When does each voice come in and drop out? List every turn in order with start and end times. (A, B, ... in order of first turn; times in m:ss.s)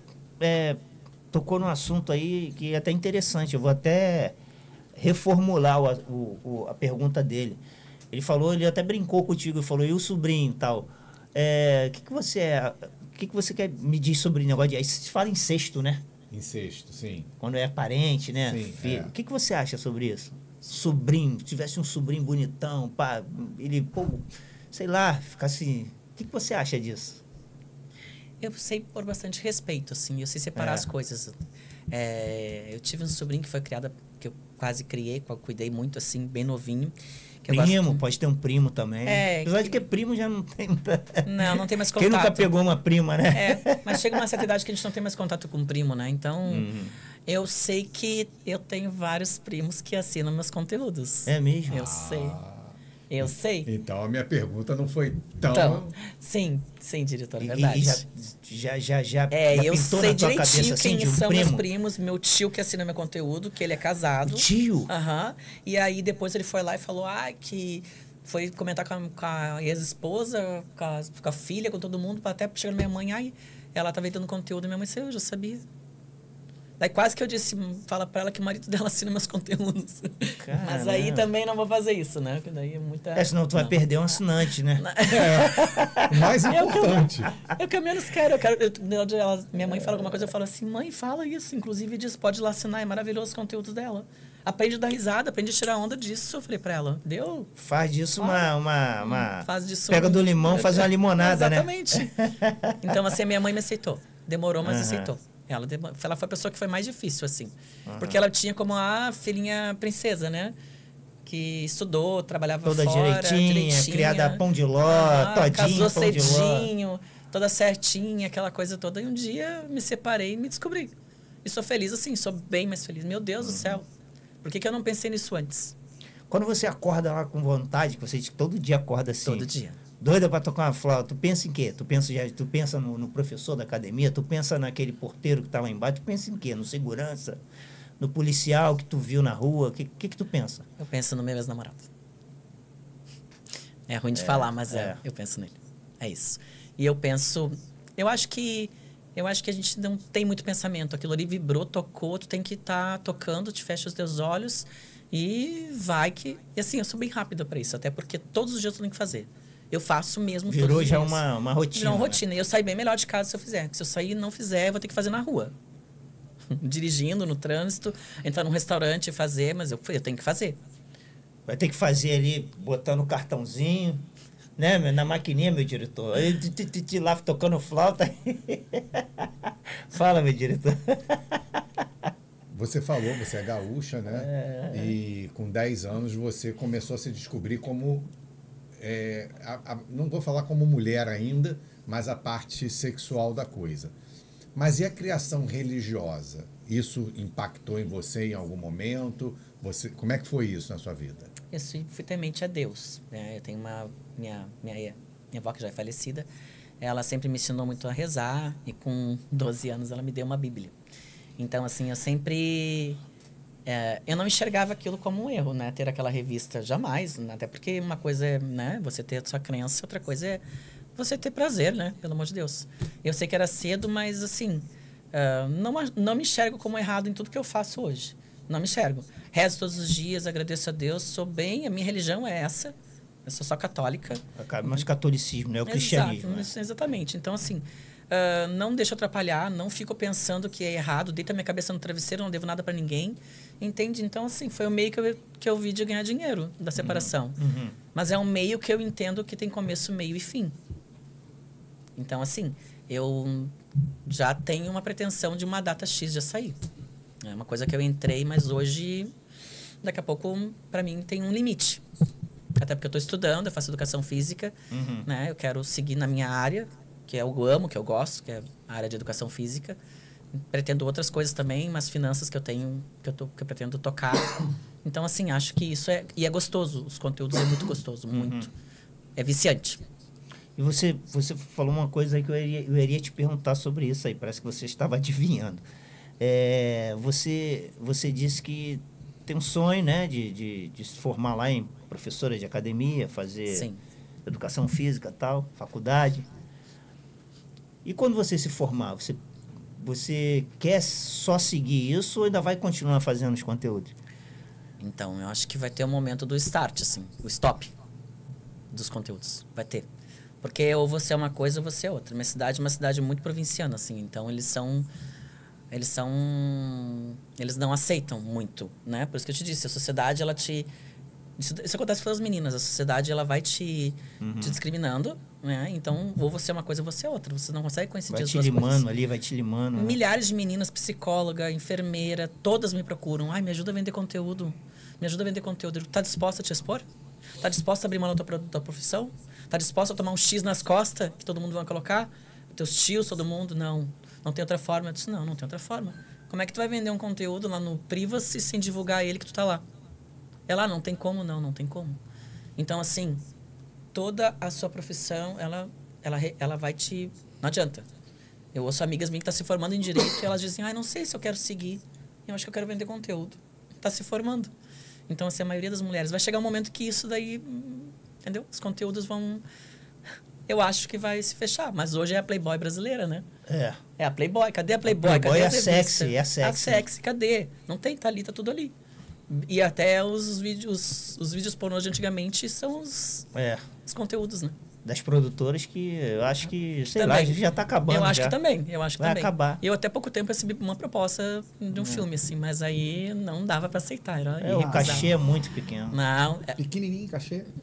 0:00.4-0:00.8 A
0:01.3-0:04.4 A
0:04.9-0:16.0 A
0:16.3-0:17.3 B
0:17.4-0:27.2 A
0:18.4-0:19.1 B
0:28.4-0:31.4 C
0:30.5-0:30.9 A
0:31.9-0:38.0 C
0:37.5-0:44.2 A
0:39.0-0:39.8 C
0:41.2-0:42.5 C
0:43.3-0:46.7 C
0:46.5-0:46.9 A
0:47.2-0:52.4 C
0:51.3-0:51.9 A
0:51.7-0:55.9 B
0:53.1-0:53.7 C
0:55.5-0:58.0 C
0:57.4-1:01.6 A
0:59.3-1:15.6 C
1:04.2-1:04.9 A
1:16.8-1:23.8 C
1:20.4-1:21.3 A
1:23.1-1:26.8 A
1:24.8-1:37.5 C
1:25.1-1:27.4 B
1:30.0-1:30.2 A
1:37.6-1:42.9 A
1:38.2-1:42.1 C
1:42.8-1:50.5 C
1:44.6-1:45.1 A
1:47.8-1:48.2 A
1:51.2-2:00.9 C
1:52.6-1:56.7 A
2:01.4-2:03.9 C
2:03.4-2:03.8 A
2:04.4-2:05.7 C
2:06.3-2:17.4 A
2:09.2-2:09.8 C
2:18.0-2:20.6 A
2:20.8-2:21.9 C
2:23.9-2:45.5 C
2:24.1-2:25.0 A
2:40.5-2:42.2 A
2:46.5-2:50.6 C
2:51.4-2:54.0 A
2:54.6-3:01.4 A
3:02.5-3:08.1 B
3:04.1-3:05.0 A
3:08.8-3:13.9 B
3:14.5-3:21.3 B
3:21.5-3:26.3 C
3:26.8-3:30.7 C
3:31.4-3:33.0 C
3:33.6-3:40.4 C
3:40.9-3:54.8 C
3:54.4-3:56.5 A
3:55.6-4:07.4 C
4:06.8-4:07.8 A
4:07.9-4:10.5 C
4:12.0-4:13.5 C
4:14.0-4:16.6 C
4:17.2-4:19.1 C
4:19.8-4:21.8 C
4:22.6-4:29.8 C
4:24.7-4:25.1 A
4:30.3-4:38.5 C
4:38.1-4:38.5 A
4:39.2-4:39.8 C
4:40.6-4:45.6 A
4:46.2-4:53.7 A
4:53.5-4:53.8 C
4:54.2-4:56.3 A
4:57.8-4:59.2 A
4:59.8-5:03.9 A
5:04.8-5:07.7 C
5:08.7-5:09.8 C
5:10.4-5:14.9 C
5:15.7-5:20.7 C
5:21.4-5:28.8 C
5:24.2-5:24.6 A
5:28.1-5:30.0 A
5:29.7-5:36.8 C
5:37.4-5:49.6 C
5:50.5-5:52.0 C
5:52.6-5:53.2 C
5:53.9-5:57.8 C
5:58.5-6:04.5 C
6:05.1-6:09.4 C
6:10.5-6:13.2 C
6:13.5-6:13.8 A
6:14.0-6:18.7 C
6:14.8-6:16.8 A
6:19.3-6:23.3 C
6:23.3-6:23.6 A
6:23.8-6:24.5 C
6:24.8-6:28.4 A
6:26.9-6:35.1 C
6:29.0-6:29.6 A
6:31.7-6:32.0 A
6:34.4-6:36.0 A
6:35.9-6:36.6 C
6:36.6-6:37.5 B